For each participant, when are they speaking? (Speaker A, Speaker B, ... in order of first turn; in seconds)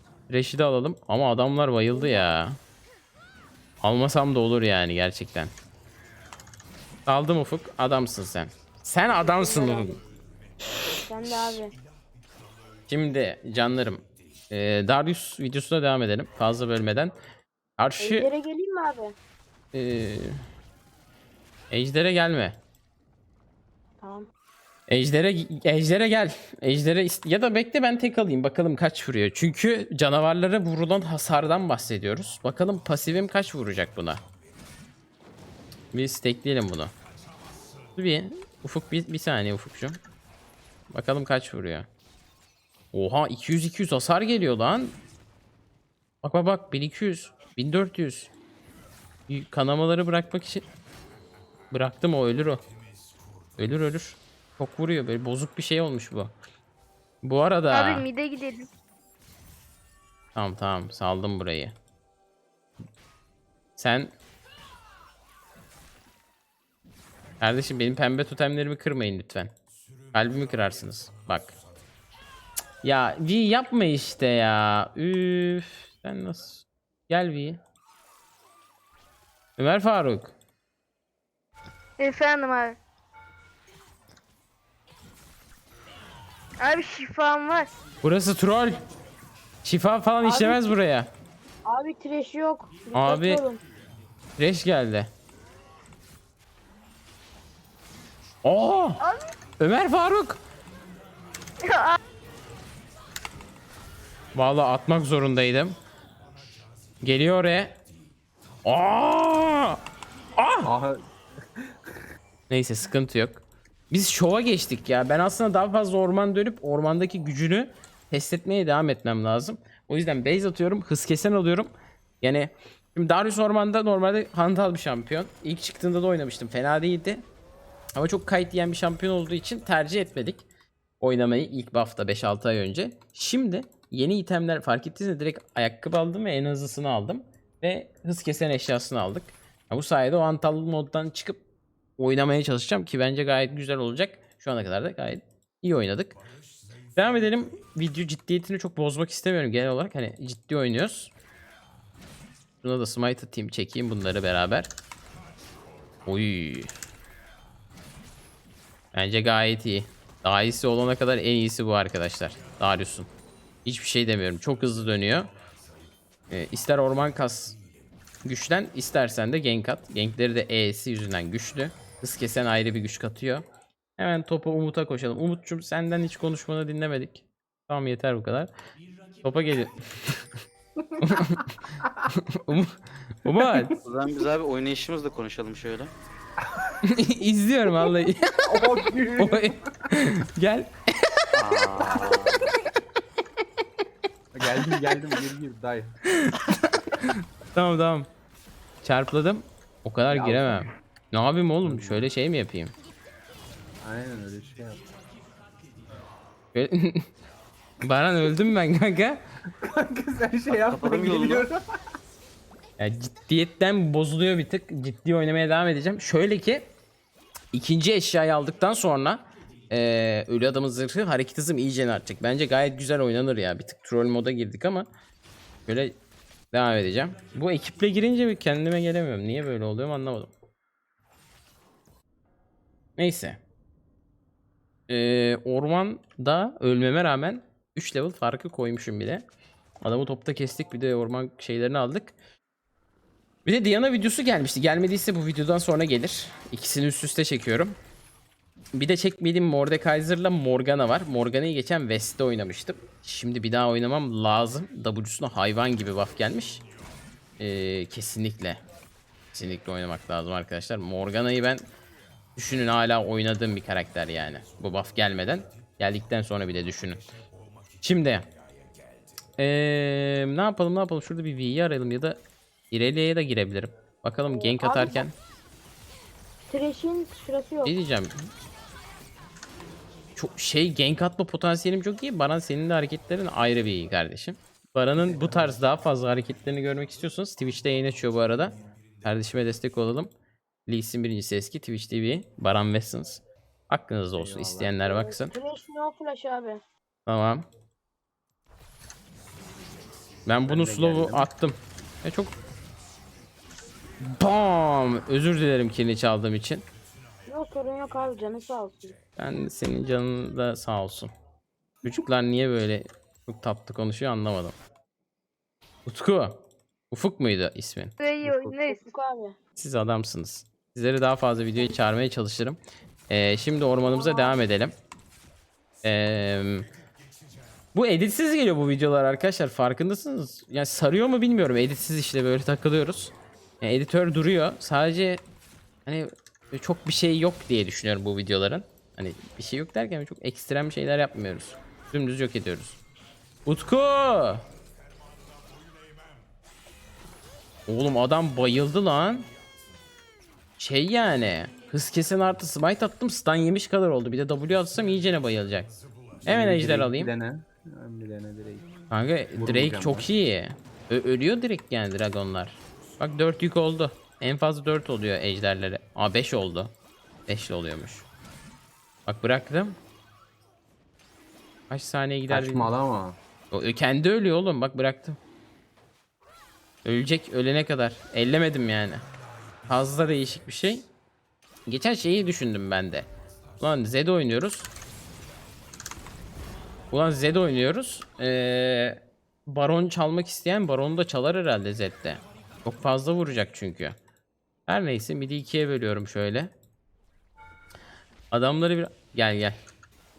Speaker A: 0.3-2.6, 3.8-5.5, 7.0-10.0, 12.9-17.1, 17.8-18.3, 19.7-20.4, 21.7-22.6, 24.9-34.2, 35.9-36.9, 38.0-40.0, 40.9-41.9, 42.9-45.0, 46.2-48.3, 49.3-50.6, 51.7-52.6, 53.6-56.3, 57.2-58.0, 60.3-61.7, 63.8-64.1, 67.4-69.5, 70.1-71.5, 72.8-77.6, 79.6-80.3, 88.0-88.8, 89.6-91.1, 92.9-93.4, 94.4-95.1, 98.4-99.0, 99.6-100.4, 104.3-105.8, 107.0-107.8, 108.6-109.8, 110.4-110.7, 112.5-121.7, 122.2-127.2, 127.9-130.4, 131.0-141.4, 142.0-146.2, 146.9-151.1, 152.6-154.7, 156.1-156.7, 158.9-163.1, 163.6-165.3, 166.3-167.6, 168.2-173.4, 174.0-178.5, 179.2-180.2, 181.0-181.6, 182.1-183.7, 186.8-191.3, 196.1-198.1, 198.8-202.7, 206.5-207.1, 207.8-209.2, 212.8-216.7, 217.5-224.9, 225.7-225.9, 226.5-230.3, 233.0-233.4, 234.9-239.2, 239.8-242.1, 243.4-247.8, 248.7-256.6, 257.4-258.6, 259.3-261.7, 262.4-267.1, 267.8-268.3, 269.4-272.2, 272.7-275.1, 277.6-278.2, 280.1-290.1, 290.7-295.3, 297.1-297.4, 300.2-302.3, 304.0-306.6, 309.2-311.1, 311.8-314.6, 315.9-317.9, 319.6-324.7, 325.8-326.7, 327.7-335.2, 335.8-342.8, 343.4-344.4, 347.7-349.3, 350.6-355.7, 356.2-357.1, 358.9-366.7, 367.3-368.1, 369.1-369.8, 371.7-372.7, 373.5-375.2, 376.8-379.1, 379.7-380.9, 381.7-384.7, 386.9-393.9, 394.7-396.5, 398.3-399.6
Speaker B: 1.9-2.3, 9.1-9.9, 11.0-11.7, 18.0-19.1, 24.0-24.3, 90.2-90.7, 91.7-93.6, 274.3-275.0, 276.5-277.7, 294.8-296.6, 307.3-308.9, 318.3-319.4, 323.8-324.4
Speaker C: 57.7-58.7, 82.0-82.8, 86.6-87.7, 101.6-102.0, 318.0-318.8
Speaker D: 110.6-111.0, 111.5-112.0, 180.8-181.2, 183.3-183.8, 188.4-190.0, 194.3-195.9, 200.1-200.6, 201.6-202.0, 203.8-204.8, 209.5-211.6, 285.0-285.6, 294.1-294.8, 300.4-301.3, 318.2-318.5, 356.1-358.7, 359.4-360.1, 372.3-373.2
Speaker E: 183.8-185.9, 191.3-192.5, 210.5-211.5